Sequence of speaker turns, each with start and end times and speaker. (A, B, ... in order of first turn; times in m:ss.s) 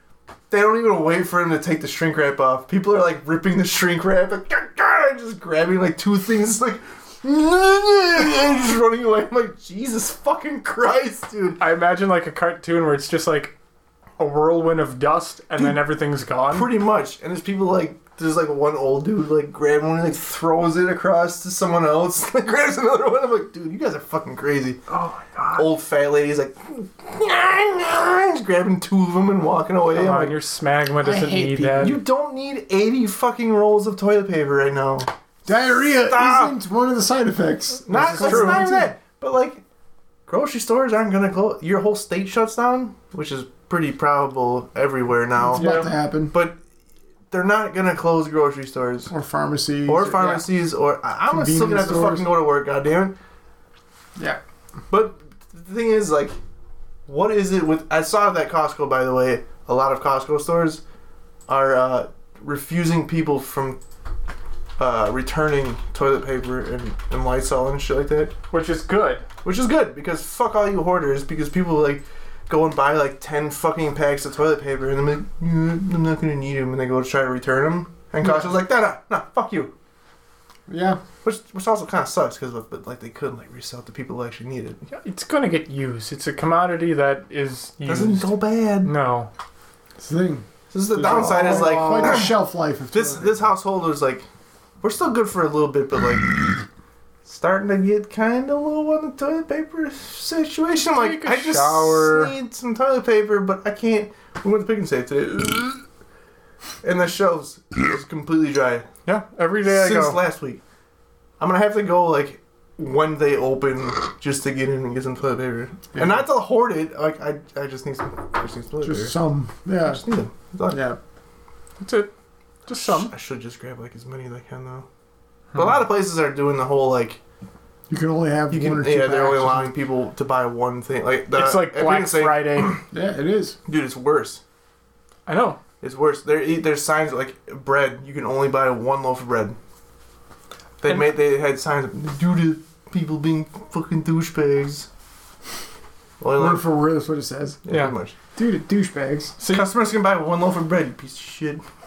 0:00.5-0:11.6 A
0:11.6-0:13.5 B
0:14.2-0:16.7 B
0:16.5-0:24.8 A
0:24.9-0:25.7 B
0:25.6-0:30.4 A
0:29.9-0:32.0 B
0:31.0-0:31.9 C
0:31.8-0:35.1 A
0:35.4-0:38.9 C
0:35.8-0:36.6 A
0:37.9-0:39.6 A
0:37.9-0:38.7 B
0:40.3-0:46.6 A
0:45.4-0:46.3 C
0:45.5-0:45.9 B
0:47.3-0:49.1 A
0:49.1-0:50.4 C
0:49.8-0:53.2 A
0:51.3-0:52.2 C
0:54.9-0:56.4 A
0:57.1-1:00.8 A
1:01.5-1:03.8 A
1:04.8-1:08.3 A
1:08.5-1:09.2 B
1:09.4-1:19.7 A
1:20.7-1:21.0 C
1:21.2-1:24.8 A
1:24.9-1:29.3 B
1:27.8-1:28.9 A
1:30.0-1:33.4 C
1:30.7-1:32.4 A
1:31.2-1:32.1 B
1:32.9-1:34.3 A
1:34.8-1:36.6 A
1:37.2-1:45.8 A
1:40.9-1:42.3 B
1:46.8-1:48.9 A
1:49.0-1:50.2 B
1:49.6-1:50.6 A
1:51.4-1:59.1 A
1:58.8-2:00.0 C
1:59.8-2:00.8 A
2:00.7-2:01.0 C
2:01.8-2:02.1 B
2:02.6-2:03.1 B
2:02.7-2:04.9 A
2:05.5-2:07.2 A
2:07.9-2:09.7 C
2:08.5-2:12.8 A
2:11.3-2:12.8 B
2:12.9-2:13.6 C
2:13.6-2:14.4 A
2:15.3-2:15.6 B
2:15.8-2:19.6 A
2:20.8-2:24.9 A
2:26.2-2:26.6 A
2:26.3-2:27.6 C
2:27.6-2:28.1 A
2:27.7-2:27.9 B
2:28.3-2:29.3 C
2:29.4-2:29.7 B
2:29.4-2:31.6 A